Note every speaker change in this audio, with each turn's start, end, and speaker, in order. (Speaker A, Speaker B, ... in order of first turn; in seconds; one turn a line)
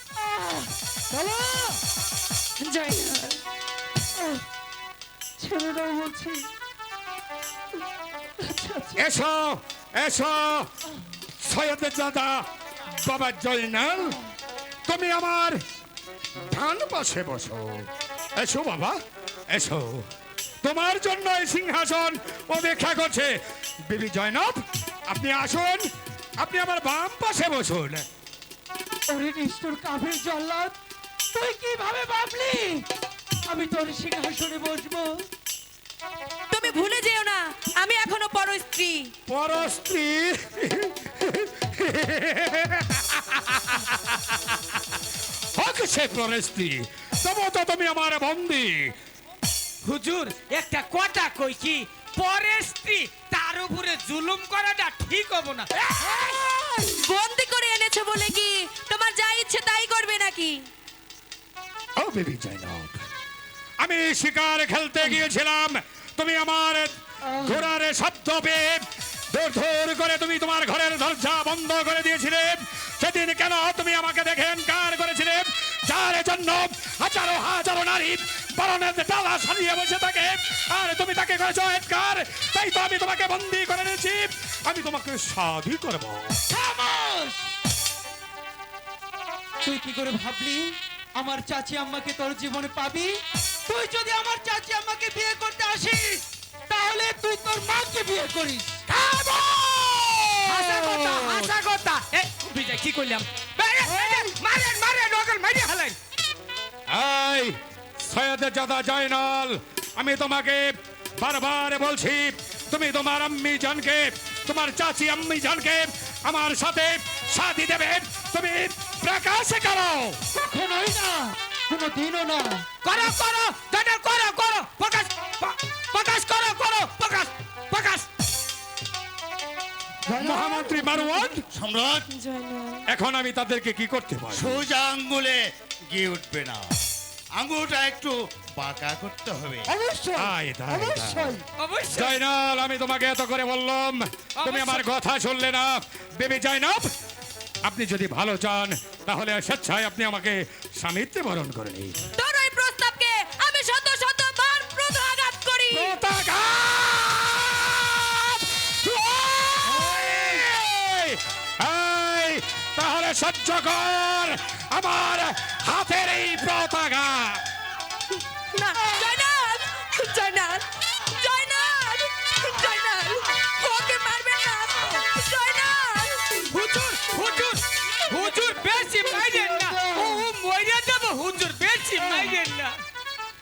Speaker A: 0.2-1.8
Speaker B: 2.6-3.4
Speaker A: 4.2-4.4
Speaker A: 5.4-6.5
Speaker A: 8.4-9.0
Speaker C: 9.0-10.7
Speaker C: 11.4-12.4
Speaker C: 13.0-14.2
Speaker C: 14.9-15.6
Speaker C: 16.5-19.0
Speaker C: 19.5-20.1
Speaker C: 20.6-23.3
Speaker C: 23.9-25.8
Speaker C: 26.4-28.1
Speaker A: 29.1-30.7
Speaker A: 31.3-32.8
Speaker A: 33.5-35.1
Speaker B: 36.5-39.1
Speaker C: 39.3-44.6
Speaker C: 45.6-48.9
Speaker D: 49.8-55.7
Speaker C: 55.8-56.5
Speaker B: 56.8-60.7
Speaker C: 62.0-63.0
Speaker C: 63.8-86.4
Speaker A: 67.3-67.7
Speaker A: 86.5-87.5
Speaker A: 89.6-93.1
Speaker A: 93.7-98.8
Speaker C: 99.0-101.3
Speaker D: 100.4-106.0
Speaker A: 103.8-104.3
Speaker C: 106.9-120.2
Speaker A: 120.3-122.6
Speaker D: 122.8-128.1
Speaker A: 130.1-131.4
Speaker C: 130.2-131.4
Speaker E: 131.5-132.0
Speaker B: 132.1-132.8
Speaker C: 132.9-134.7
Speaker E: 134.3-135.4
Speaker E: 135.9-136.7
Speaker E: 137.4-139.7
Speaker A: 139.7-141.4
Speaker C: 140.2-141.4
Speaker D: 141.6-142.2
Speaker C: 141.9-146.9
Speaker D: 144.4-144.9
Speaker C: 147.7-151.9
Speaker B: 152.2-156.0
Speaker C: 155.7-167.4
Speaker B: 168.5-176.3
Speaker D: 176.5-182.7
Speaker A: 178.4-180.2